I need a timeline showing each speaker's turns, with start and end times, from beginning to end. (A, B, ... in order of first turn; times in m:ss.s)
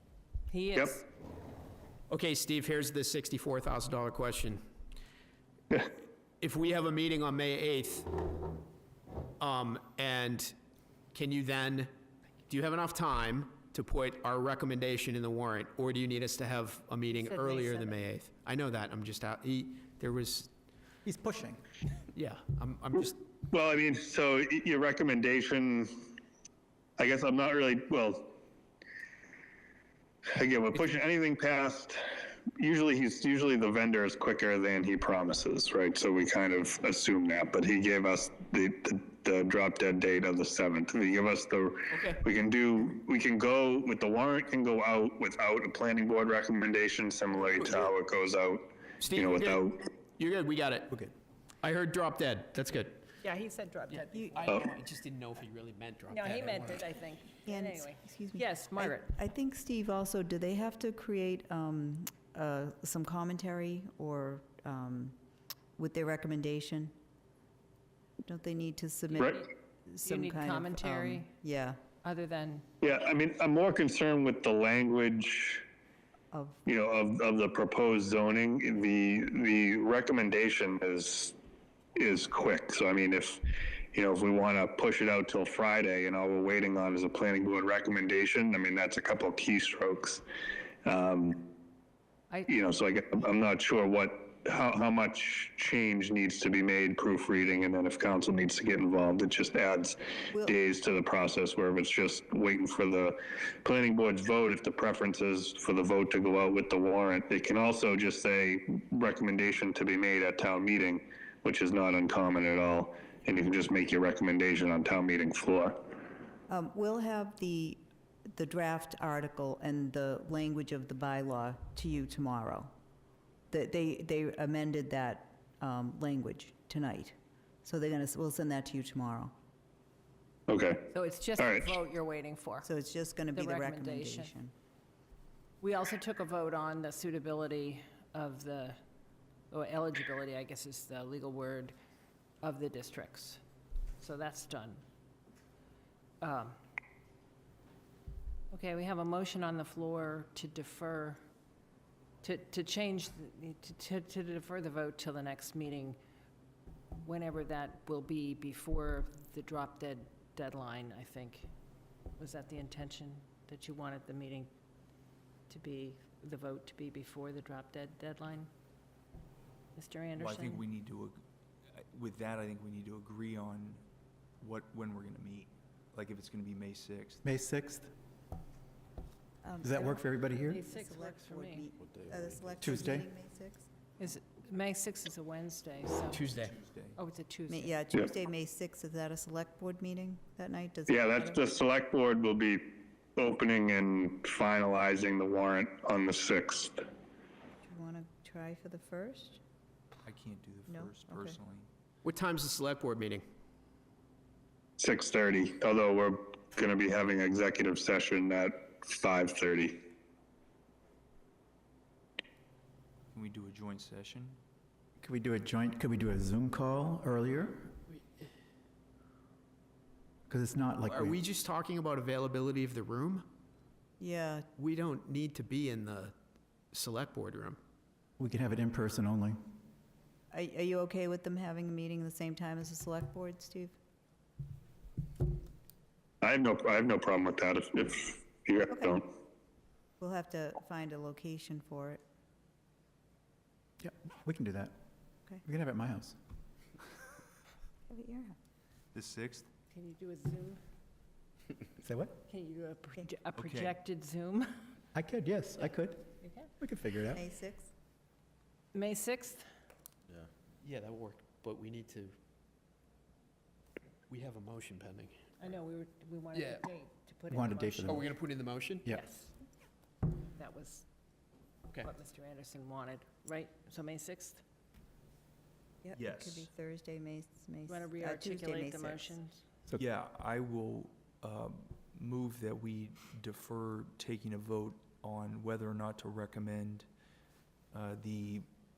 0:00.5-0:01.0 A
0:02.1-0:04.6 B
0:06.4-0:08.2 B
0:09.4-0:10.6 B
0:11.1-0:11.9 B
0:12.5-0:20.5 B
0:17.1-0:18.0 A
0:21.0-0:21.6 C
0:22.1-0:23.2 B
0:23.5-0:26.1 D
0:27.0-0:28.3 D
0:30.3-0:49.9 D
0:41.9-0:42.2 B
0:49.0-0:51.0 B
0:51.6-0:53.0 B
0:53.2-0:54.6 A
0:53.9-0:56.8 B
0:54.1-0:54.4 E
0:56.1-0:59.1 A
0:57.5-1:05.2 E
1:05.8-1:06.9 E
1:08.2-1:11.8 E
1:09.2-1:09.4 D
1:10.0-1:11.3 A
1:12.0-1:12.7 A
1:12.8-1:15.6 D
1:16.3-1:16.6 E
1:16.6-1:21.3 D
1:22.0-1:30.2 D
1:30.8-1:31.5 D
1:32.3-1:32.6 A
1:32.5-1:56.0 D
1:56.5-2:02.7 E
2:03.5-2:09.3 E
2:10.5-2:11.8 D
2:10.9-2:12.7 A
2:12.6-2:14.5 E
2:13.3-2:14.3 A
2:15.6-2:18.8 A
2:19.5-2:21.7 A
2:22.4-2:23.4 A
2:24.0-2:24.8 A
2:26.2-2:26.6 A
2:28.5-2:31.2 A
2:32.2-2:36.0 A
2:37.0-2:41.5 A
2:42.2-2:44.5 A
2:45.5-2:48.5 A
2:49.7-2:50.6 A
2:50.2-2:51.2 F
2:51.7-2:53.8 F
2:54.4-2:57.2 F
2:57.2-2:57.9 C
2:59.4-3:03.7 E
2:59.6-3:00.6 C
3:00.4-3:01.7 A
3:02.6-3:03.1 C
3:04.0-3:06.3 A
3:06.1-3:06.5 B
3:06.4-3:07.0 F
3:06.9-3:07.8 A
3:07.5-3:11.4 E
3:10.9-3:16.8 D
3:17.6-3:19.4 E
3:20.0-3:21.7 F
3:20.7-3:21.4 E
3:22.0-3:23.2 B
3:24.8-3:29.9 D
3:33.1-3:34.4 F
3:35.0-3:37.8 C
3:40.3-3:41.2 C
3:40.9-3:43.3 B
3:44.0-3:44.5 E
3:44.6-3:46.1 B
3:46.7-3:47.6 B
3:48.2-3:49.4 C
3:50.3-3:53.8 E
3:56.2-3:59.0 D
3:58.7-3:59.0 E
4:00.0-4:02.0 E
4:03.8-4:04.8 C
4:05.4-4:06.2 C
4:07.9-4:08.3 E
4:08.9-4:09.5 F
4:09.7-4:10.6 A
4:11.8-4:12.2 C
4:12.3-4:14.6 A
4:13.4-4:13.7 F
4:14.9-4:17.2 C
4:16.2-4:16.5 A
4:17.1-4:17.7 E
4:18.7-4:19.4 A
4:20.6-4:22.1 B
4:24.1-4:25.2 B
4:25.4-4:28.1 A
4:26.3-4:26.6 B
4:27.3-4:28.1 C
4:27.8-4:28.9 B
4:28.9-4:29.3 A
4:30.3-4:30.8 A
4:31.8-4:34.4 A
4:35.8-4:39.2 E
4:36.0-4:36.5 F
4:37.7-4:39.4 A
4:39.8-4:46.9 F
4:47.7-4:48.5 F